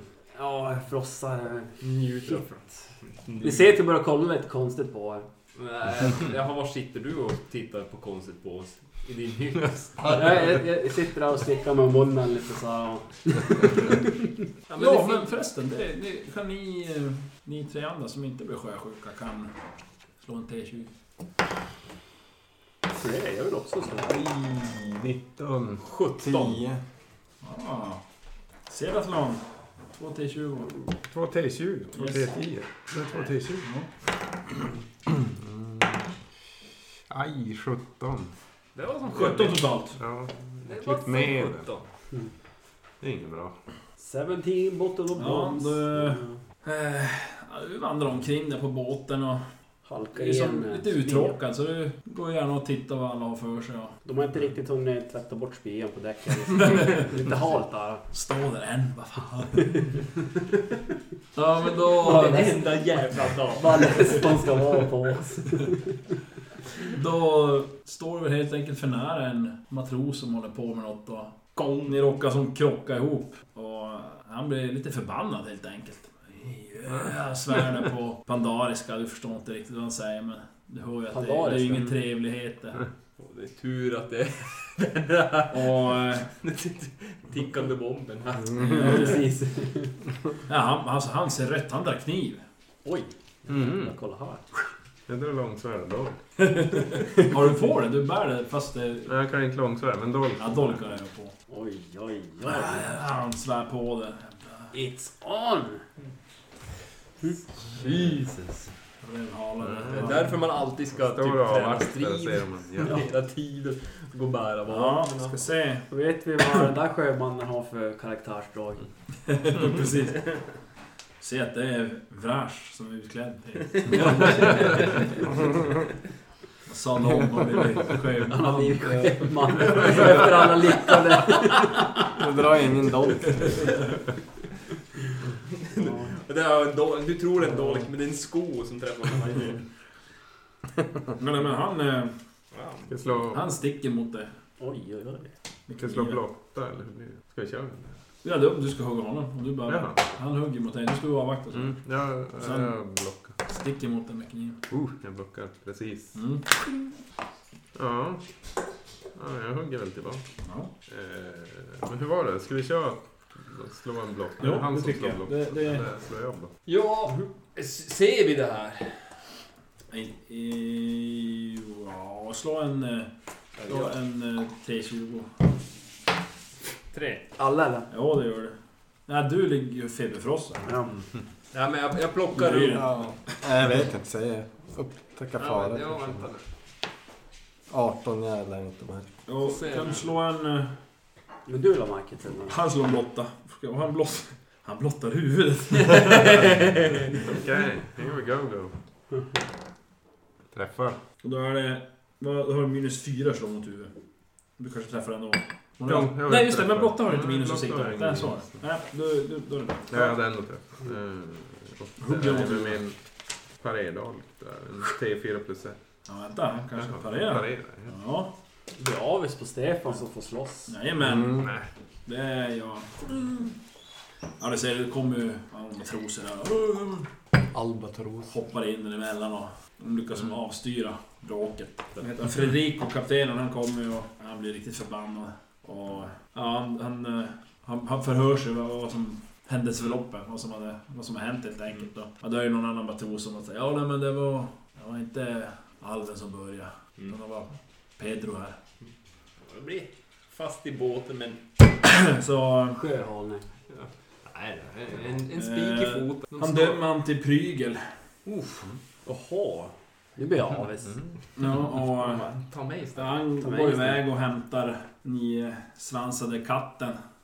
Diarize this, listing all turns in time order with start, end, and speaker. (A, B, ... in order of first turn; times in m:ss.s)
0:00.3-0:02.5 A
0:01.8-0:02.6 B
0:03.2-0:03.7 B
0:03.4-0:05.3 A
0:05.5-0:10.5 B
0:10.1-0:14.3 A
0:14.7-0:15.3 B
0:14.7-0:19.5 C
0:20.2-0:20.9 C
0:22.9-0:24.1 A
0:24.0-0:25.8 D
0:25.8-0:26.6 B
0:26.2-0:26.8 E
0:27.4-0:28.0 C
0:28.7-0:30.7 C
0:30.9-0:33.7 D
0:31.9-0:32.3 C
0:33.6-0:33.9 C
0:35.1-0:36.0 D
0:37.1-0:38.3 D
0:38.8-0:39.7 B
0:39.1-0:40.0 C
0:40.0-0:41.7 D
0:40.6-0:41.9 B
0:43.0-0:43.6 D
0:44.0-0:46.4 A
0:45.2-0:49.4 C
0:49.8-0:51.4 A
0:50.1-0:54.0 C
0:54.0-0:58.0 A
0:56.7-0:57.0 C
0:58.1-1:00.0 C
1:01.3-1:02.5 C
1:02.0-1:02.7 A
1:02.0-1:04.3 B
1:03.6-1:05.9 A
1:06.8-1:22.8 C
1:11.6-1:11.9 B
1:21.1-1:22.0 A
1:23.2-1:29.2 B
1:25.5-1:26.3 C
1:28.6-1:29.3 C
1:28.7-1:29.9 A
1:30.5-1:32.4 C
1:32.8-1:34.4 A
1:33.5-1:33.9 D
1:35.1-1:36.2 D
1:37.0-1:39.1 C
1:39.0-1:41.0 D
1:40.4-1:41.3 C
1:41.5-1:42.9 A
1:42.4-1:44.7 C
1:44.7-1:45.8 A
1:47.2-1:48.6 A
1:47.8-1:48.2 B
1:49.0-1:50.3 C
1:49.6-1:50.1 D
1:49.9-1:55.4 B
1:51.0-1:53.0 D
1:54.7-1:55.9 C
1:55.9-1:58.8 A
1:59.2-2:00.4 C
2:01.2-2:05.3 C
2:03.9-2:04.7 B
2:06.6-2:09.3 C
2:08.3-2:12.2 A
2:09.6-2:10.6 B
2:09.9-2:10.2 C
2:12.1-2:13.8 E
2:15.5-2:19.6 B
2:15.8-2:16.1 A
2:21.2-2:22.1 C
2:22.5-2:22.9 B
2:22.9-2:23.5 D
2:23.3-2:24.3 C
2:24.6-2:25.3 A
2:25.7-2:27.9 D
2:25.7-2:26.2 C
2:28.2-2:31.8 C
2:29.6-2:30.0 D
2:31.5-2:33.4 D
2:32.3-2:32.8 C
2:33.4-2:34.6 C
2:34.7-2:36.2 D
2:36.1-2:36.4 C
2:37.7-2:38.2 D
2:39.1-2:40.2 D
2:40.4-2:40.7 C
2:40.9-2:46.5 D
2:44.4-2:45.8 C
2:46.6-2:49.1 B
2:49.9-2:53.1 C
2:53.6-2:55.4 C
2:53.6-2:53.9 B
2:56.9-2:57.3 B
2:57.4-2:57.9 A
2:57.9-3:00.7 C
3:00.6-3:00.9 A
3:01.5-3:03.0 B
3:02.3-3:03.3 C
3:02.7-3:06.2 E
3:05.4-3:06.4 B
3:07.7-3:09.1 E
3:09.3-3:10.7 C
3:09.4-3:10.0 B
3:11.5-3:12.6 A
3:12.4-3:16.8 C
3:16.0-3:16.6 B
3:17.1-3:18.7 D
3:20.5-3:21.0 D
3:21.2-3:23.9 C
3:24.6-3:30.2 C
3:25.8-3:28.6 D
3:29.9-3:33.0 D
3:32.0-3:32.8 C
3:33.6-3:35.8 D
3:36.0-3:38.3 C
3:36.8-3:37.9 D
3:38.8-3:40.7 A
3:40.7-3:41.5 C
3:41.0-3:41.5 E
3:42.0-3:43.5 C
3:44.4-3:47.1 C
3:47.5-3:48.3 E
3:48.3-4:08.6 C
4:09.4-4:11.4 B
4:11.8-4:12.8 C
4:12.8-4:13.4 A
4:13.7-4:16.8 B
4:15.3-4:17.9 C
4:19.0-4:21.0 A
4:21.4-4:22.3 C
4:21.7-4:23.2 B
4:22.9-4:27.0 C
4:23.4-4:24.0 A